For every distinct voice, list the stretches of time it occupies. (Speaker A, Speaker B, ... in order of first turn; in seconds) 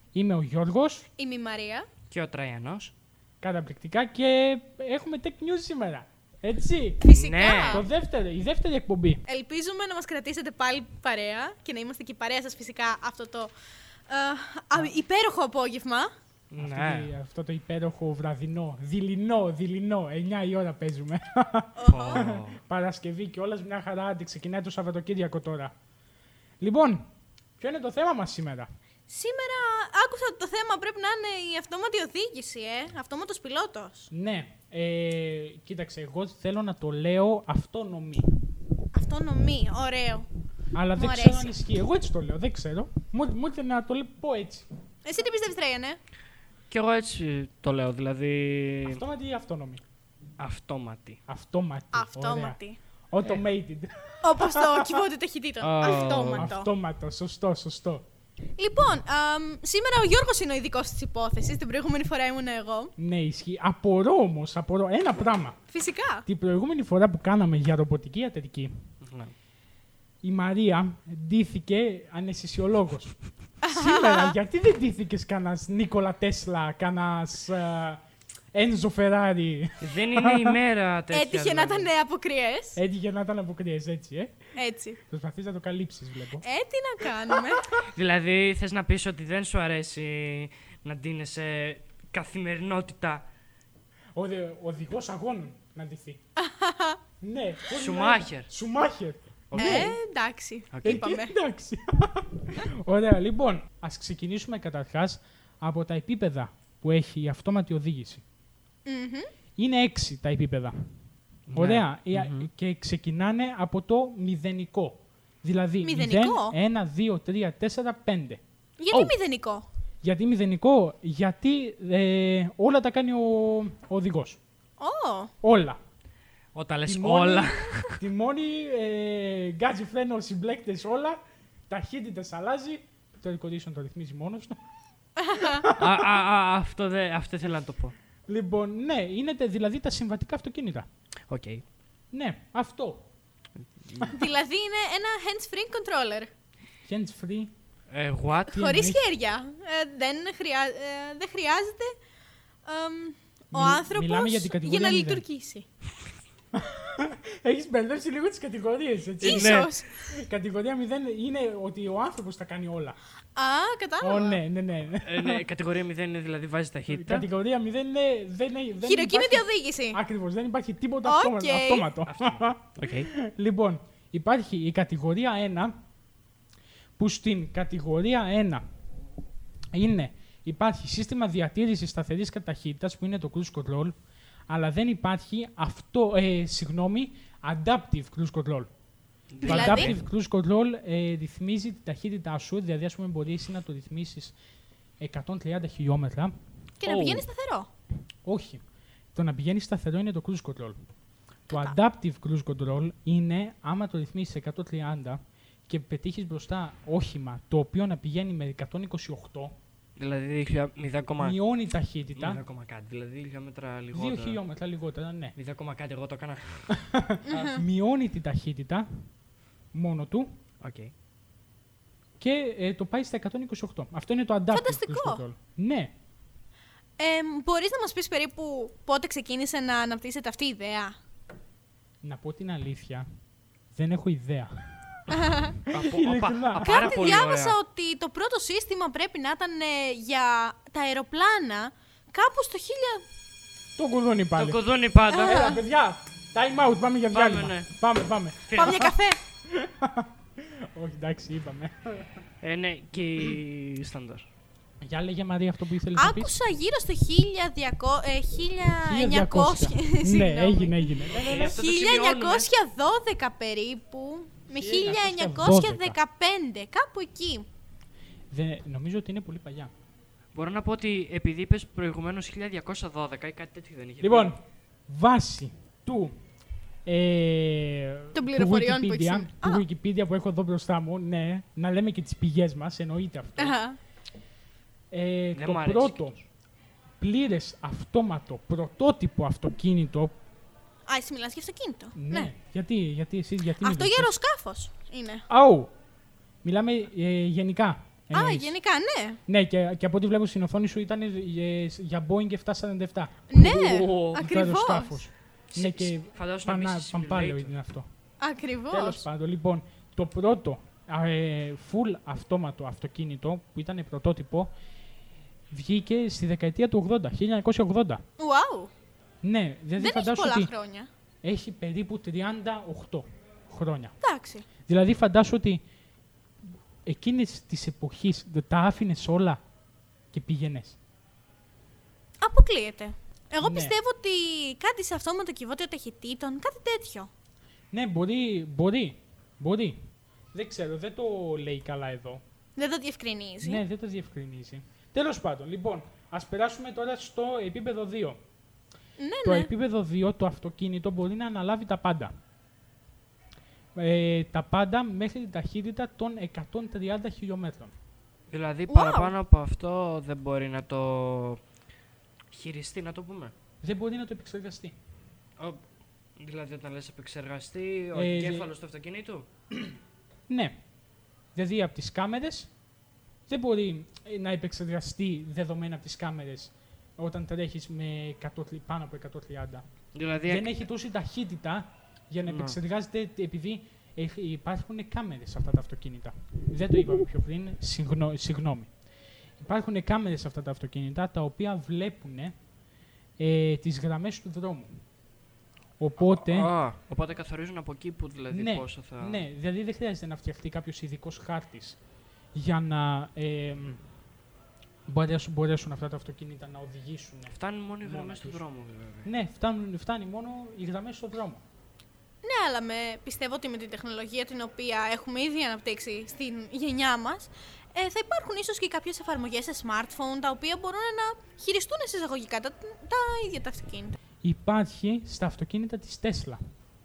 Speaker A: 0.1-1.1, 3.4-7.1, 7.6-9.2, 16.6-25.7, 26.6-27.1, 27.6-28.7, 34.1-38.3, 40.7-44.7, 48.8-49.8, 51.3-52.6, 53.1-55.0, 56.3-58.0, 63.0-65.6, 66.2-68.7, 70.2-73.1, 73.7-78.0, 78.5-80.6, 82.8-84.3, 85.0-86.4, 94.2-96.2, 97.2-99.9, 100.8-108.2, 109.6-110.7, 111.5-118.4, 120.0-124.4, 125.4-125.8, 126.9-134.6, 135.3-136.1, 138.3-140.9, 142.1-143.1, 146.8-147.5, 148.5-149.0, 153.5-155.2, 156.5-163.0, 164.0-165.4, 166.9-175.8, 177.0-178.6, 179.7-183.9, 184.5-188.7, 189.4-194.3, 195.0-196.3, 198.2-198.6, 199.1-200.8, 201.5-209.6, 211.2-212.4, 213.9-215.3, 216.7-218.9, 219.7-220.3, 222.2-225.9, 232.0-233.1, 233.7-237.0, 243.8-244.6, 245.2-248.9, 249.5-252.1, 254.8-256.3, 258.8-261.6, 264.5-266.0, 268.3-269.7, 274.0-276.1, 276.9-283.6, 284.9-286.2, 287.0-290.1, 291.9-294.1, 295.3-295.7, 296.4-298.5, 299.3-303.3, 304.1-307.9, 308.7-314.5, 315.5-318.0, 319.2-320.5, 321.2-323.9, 324.6-325.6, 326.9-329.4, 330.1-330.8, 333.4-333.7, 337.7-339.8, 340.3-342.2, 343.4-348.2, 349.2-352.1, 353.7-357.7, 363.6-364.7, 367.9-368.5, 370.3-370.6, 371.4-372.5, 373.3-379.6, 380.3-388.7, 389.4-392.3, 393.2-394.8, 395.8-396.5, 398.3-401.8, 402.3-403.8, 404.9-408.4, 409.0-411.4, 424.2-426.4
Speaker B: 1.2-1.9, 7.0-7.8, 9.3-13.5, 14.1-16.1, 21.8-22.2, 29.1-34.1, 38.9-40.3, 40.9-41.5, 45.0-46.0, 51.9-52.8, 54.2-56.7, 58.6-62.9, 65.7-66.2, 73.6-74.4, 81.1-82.8, 84.5-85.0, 86.4-87.8, 96.4-97.0, 99.6-101.3, 108.8-109.3, 115.8-116.5, 118.8-119.7, 124.8-125.3, 135.2-135.6, 144.1-146.3, 148.5-151.9, 152.6-155.7, 159.2-160.1, 163.3-164.4, 168.8-170.0, 171.0-171.9, 189.4-189.9, 196.8-197.7, 201.5-201.8, 217.3-217.6, 224.5-225.2, 227.0-230.9, 235.1-235.5, 236.6-243.0, 245.1-245.6, 248.5-249.2, 255.9-267.4, 278.1-279.6, 283.4-283.8, 290.9-292.3, 293.6-295.2, 298.1-299.2, 303.3-305.0, 308.2-309.0, 318.2-318.7, 319.8-320.9, 324.0-324.4, 332.2-337.1, 342.6-343.6, 349.0-349.5, 358.7-359.1, 412.2-424.0
Speaker C: 2.1-2.9, 7.1-7.8, 16.5-17.1, 21.9-22.6, 46.7-49.0, 50.4-51.2, 55.6-56.5, 69.0-69.3, 79.8-81.9, 87.8-93.2, 97.7-98.5, 99.5-100.0, 100.7-101.0, 111.5-112.5, 126.5-128.0, 135.8-137.9, 141.3-141.6, 147.9-148.6, 159.2-159.7, 165.0-167.3, 172.0-173.1, 189.3-190.0, 196.8-197.2, 210.0-211.4, 212.2-214.4, 215.4-216.7, 220.6-220.9, 235.7-237.6, 244.3-245.4, 247.1-247.7, 248.4-248.9, 252.4-254.3, 261.1-262.5, 270.3-274.3, 285.3-286.0, 303.3-304.2, 305.5-307.5, 358.3-361.4, 362.3-363.3, 366.2-369.3, 379.9-380.5, 382.2-382.6, 396.0-399.2, 407.3-409.1